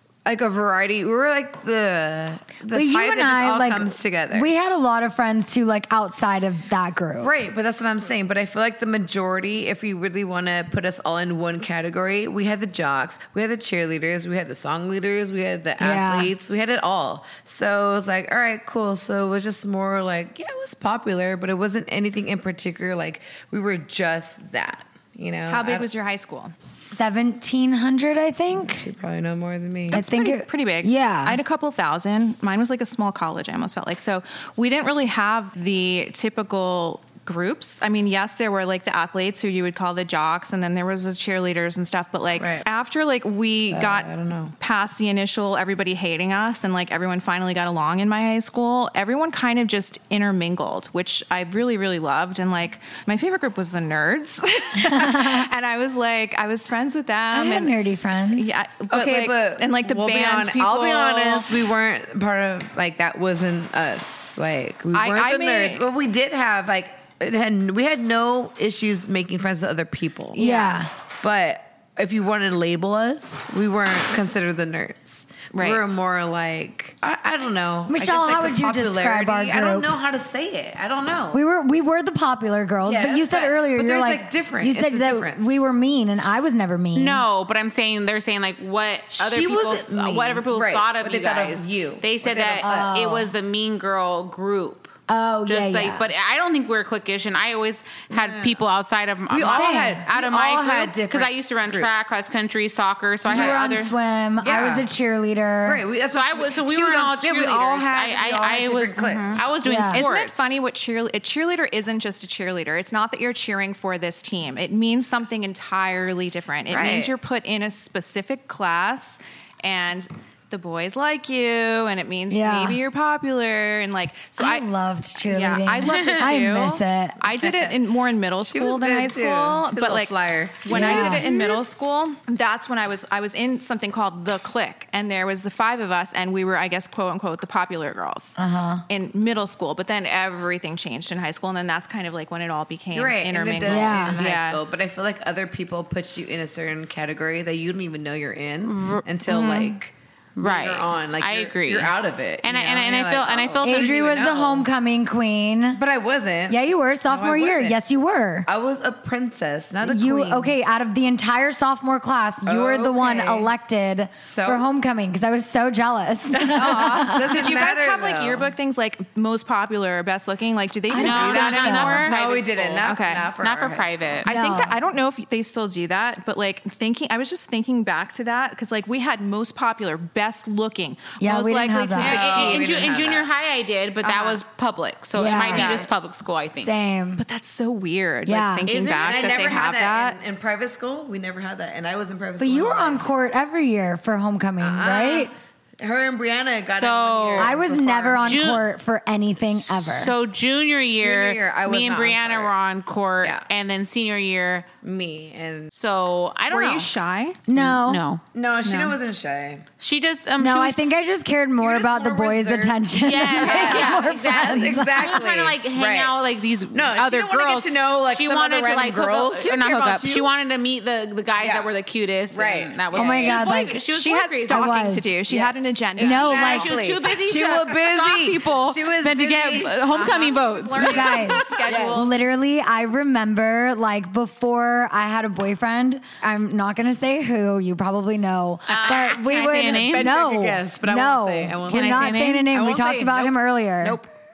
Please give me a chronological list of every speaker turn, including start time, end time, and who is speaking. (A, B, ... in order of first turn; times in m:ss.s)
0:00.2-0:04.5 A
0:02.7-0:07.3 B
0:07.2-0:25.9 A
0:15.8-0:16.3 B
0:25.4-0:26.5 C
0:26.7-0:28.9 B
0:28.6-0:30.0 A
0:29.9-0:57.8 C
0:29.9-0:31.4 B
0:42.4-0:42.6 A
0:43.7-0:44.5 A
0:57.3-0:58.5 B
0:58.3-1:01.5 C
0:58.9-1:10.4 A
1:04.9-1:05.8 C
1:10.3-1:10.8 C
1:10.4-1:10.9 B
1:11.2-1:21.4 A
1:15.5-1:15.8 C
1:17.9-1:19.9 B
1:21.3-1:27.2 B
1:22.8-1:25.6 A
1:26.9-1:34.9 D
1:29.1-1:33.3 A
1:32.6-1:33.3 B
1:35.1-1:36.1 B
1:35.4-1:44.0 D
1:38.1-1:38.6 A
1:39.3-1:42.2 A
1:39.5-1:40.0 B
1:43.3-1:45.8 B
1:43.3-1:43.6 A
1:44.4-1:44.9 A
1:45.6-1:49.4 A
1:46.1-1:50.5 D
1:49.0-2:04.6 C
1:49.6-1:50.0 B
1:56.7-1:57.1 A
2:02.3-2:02.8 B
2:04.4-2:07.2 B
2:05.2-2:10.1 C
2:05.8-2:06.3 D
2:07.4-2:07.8 A
2:08.4-2:11.3 A
2:10.6-2:18.4 C
2:10.7-2:11.2 B
2:18.4-2:18.8 B
2:18.9-2:24.6 C
2:22.9-2:34.7 A
2:23.7-2:24.2 B
2:28.7-2:29.7 D
2:30.4-2:34.0 D
2:33.6-2:35.8 B
2:35.7-2:37.8 A
2:36.5-2:38.5 B
2:38.4-2:40.5 A
2:39.8-2:47.4 B
2:42.4-2:43.5 A
2:44.2-2:44.6 A
2:46.4-2:48.5 A
2:46.4-2:52.2 C
2:50.9-2:52.1 B
2:50.9-2:54.3 D
2:51.7-2:54.2 A
2:52.8-2:53.3 C
2:54.2-3:02.7 C
2:54.3-2:54.8 B
3:01.2-3:02.2 B
3:02.0-3:03.3 A
3:02.0-3:06.7 D
3:05.2-3:05.8 B
3:05.5-3:05.9 A
3:06.6-3:07.2 B
3:07.2-3:10.2 C
3:08.2-3:08.7 B
3:08.7-3:09.7 D
3:08.8-3:13.0 A
3:12.4-3:15.3 B
3:14.6-3:18.6 A
3:16.7-3:17.5 D
3:17.4-3:20.1 B
3:18.2-3:18.6 D
3:19.5-3:24.7 D
3:21.0-3:22.5 A
3:24.8-3:25.7 A
3:25.7-3:26.9 D
3:26.5-3:27.4 C
3:27.5-3:28.0 B
3:27.5-3:28.2 D
3:28.3-3:29.6 A
3:29.8-3:30.8 D
3:30.4-3:35.1 B
3:31.6-3:32.8 A
3:33.0-3:44.7 D
3:33.4-3:36.1 A
3:36.7-3:40.3 A
3:41.4-3:41.7 A
3:42.3-3:43.3 A
3:42.9-3:43.8 B
3:43.9-3:46.7 C
3:44.4-3:45.1 B
3:45.3-3:50.2 A
3:46.0-3:46.6 B
3:46.1-3:51.4 D
3:49.8-3:52.2 C
3:50.8-4:04.0 B
3:51.4-3:52.1 A
3:58.7-4:00.1 D
3:58.7-4:04.1 A
4:01.7-4:02.5 D